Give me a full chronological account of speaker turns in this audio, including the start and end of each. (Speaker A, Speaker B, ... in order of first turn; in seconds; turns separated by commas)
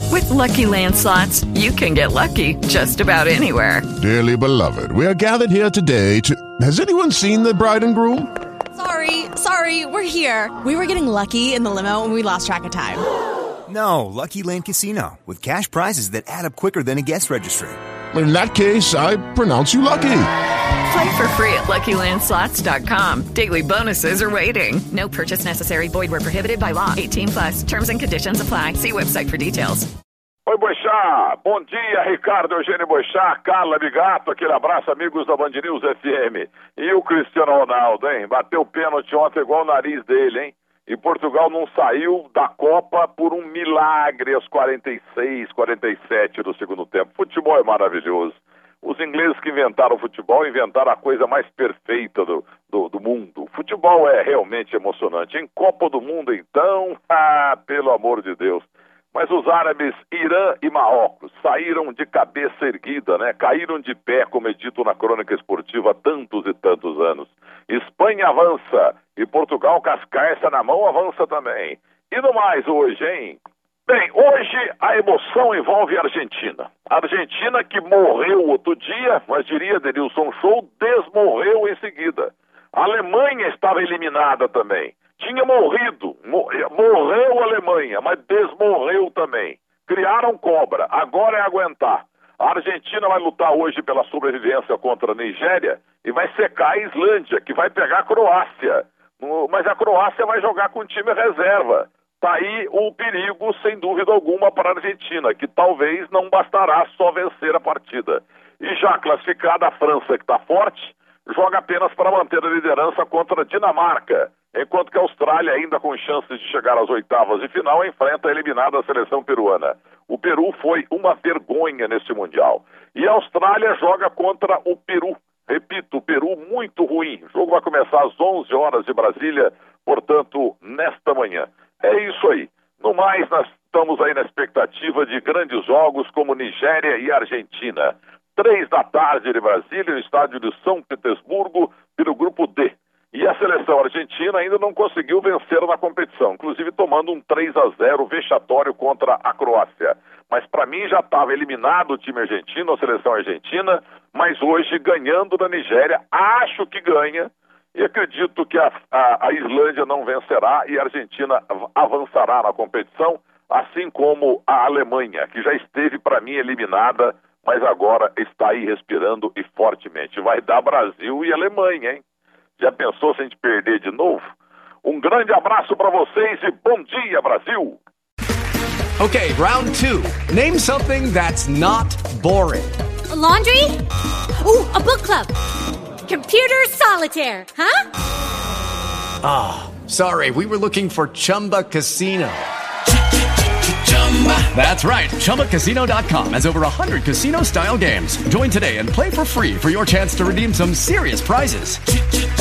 Speaker A: 0.1-3.9, Speaker B: 4.0-8.3, Speaker C: 8.8-13.0, Speaker D: 13.7-17.8, Speaker B: 18.1-20.3, Speaker A: 20.9-29.9, Speaker E: 30.5-172.0, Speaker E: 172.6-174.3, Speaker E: 174.8-177.8, Speaker F: 179.0-182.7, Speaker G: 183.1-183.8, Speaker G: 184.4-185.3, Speaker G: 186.1-187.8, Speaker F: 189.2-192.4, Speaker F: 194.2-201.8